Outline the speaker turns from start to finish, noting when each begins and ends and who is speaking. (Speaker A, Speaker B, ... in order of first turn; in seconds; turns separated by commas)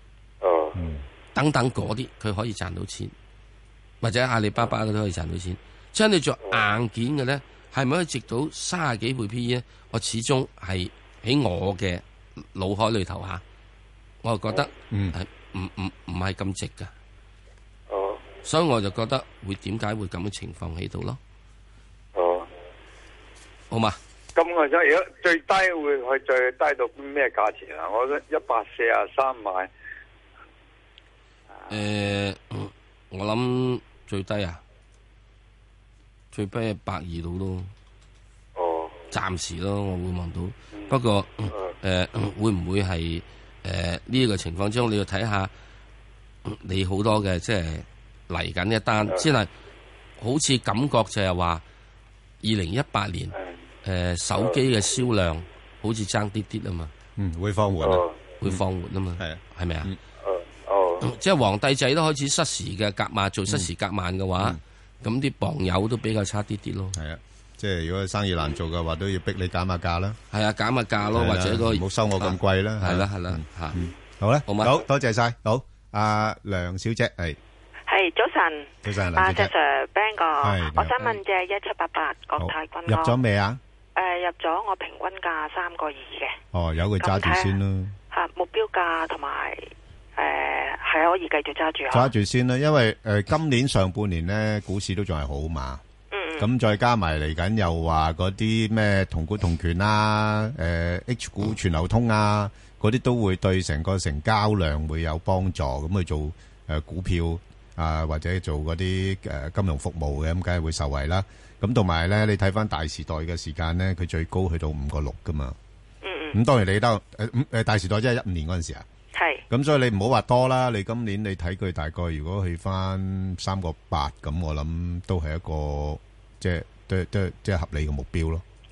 Speaker A: 0.4-0.7, Speaker B: 0.8-1.0, Speaker C: 1.3-3.1, Speaker C: 4.0-12.0, Speaker C: 12.5-13.4, Speaker C: 14.2-16.9, Speaker A: 17.9-18.2, Speaker C: 18.4-21.2, Speaker A: 22.1-22.5, Speaker C: 23.7-24.0, Speaker A: 24.4-29.7, Speaker C: 31.7-34.6, Speaker C: 36.3-37.7, Speaker A: 38.5-39.0, Speaker C: 39.1-45.5, Speaker C: 46.5-49.5, Speaker C: 50.2-51.6, Speaker C: 52.4-56.9, Speaker B: 57.2-58.6, Speaker A: 57.8-58.3, Speaker C: 58.4-59.9, Speaker B: 59.2-60.0, Speaker A: 60.2-61.0, Speaker C: 61.0-67.0, Speaker B: 66.9-70.2, Speaker C: 70.3-73.8, Speaker B: 71.1-77.4, Speaker C: 74.5-74.8, Speaker D: 77.9-83.2, Speaker B: 78.8-79.5, Speaker B: 80.4-81.2, Speaker B: 82.4-83.6, Speaker D: 83.9-86.4, Speaker B: 86.5-88.0, Speaker D: 87.0-87.5, Speaker D: 88.1-92.1, Speaker B: 91.9-95.8, Speaker D: 96.1-96.5, Speaker B: 96.4-115.5, Speaker D: 116.0-116.3, Speaker B: 116.3-118.8, Speaker D: 119.1-119.4, Speaker B: 119.5-128.4